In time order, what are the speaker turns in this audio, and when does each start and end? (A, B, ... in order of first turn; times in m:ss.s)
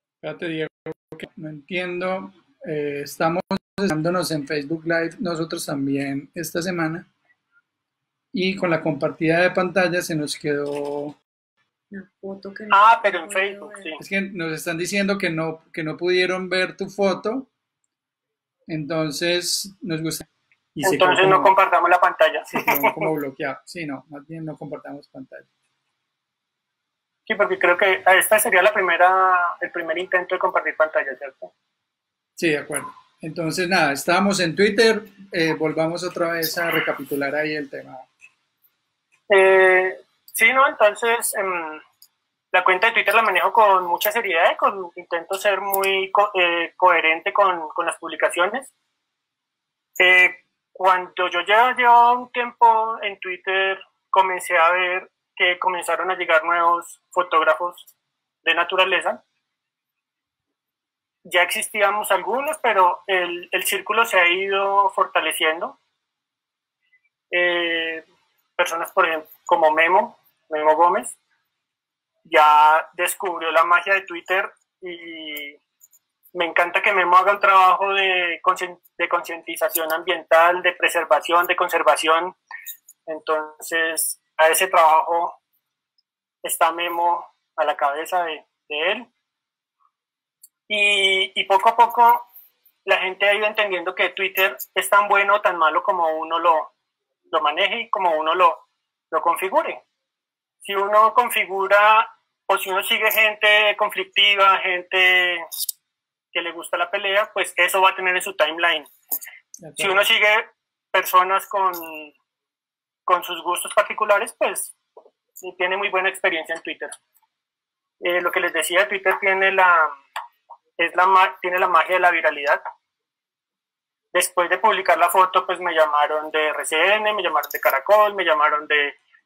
0:00.2-0:07.1 A
0:08.3-0:11.2 A
0:11.9-0:13.9 B
0:12.7-0:14.0 C
0:14.0-0:17.5 A
0:18.7-0:21.5 A
0:20.8-0:23.1 C
0:22.5-0:25.5 A
0:27.3-0:31.5 C
0:32.4-0:38.0 A
0:39.3-0:41.8 C
0:42.5-0:48.7 C
0:50.0-0:57.9 C
0:58.4-0:59.2 C
1:01.2-1:05.8 C
1:07.3-1:08.0 C
1:08.6-1:11.2 C
1:12.2-1:15.6 C
1:16.3-1:22.4 C
1:23.1-1:25.4 C
1:26.4-1:29.1 C
1:30.7-1:32.2 C
1:32.8-1:36.7 C
1:37.3-1:39.8 C
1:40.6-1:45.5 C
1:46.3-1:48.9 C
1:49.6-1:50.1 A
1:49.8-1:52.1 C
1:53.1-1:54.7 C
1:55.4-1:56.9 C
1:58.0-1:59.9 C
2:00.8-2:02.6 C
2:04.1-2:09.0 C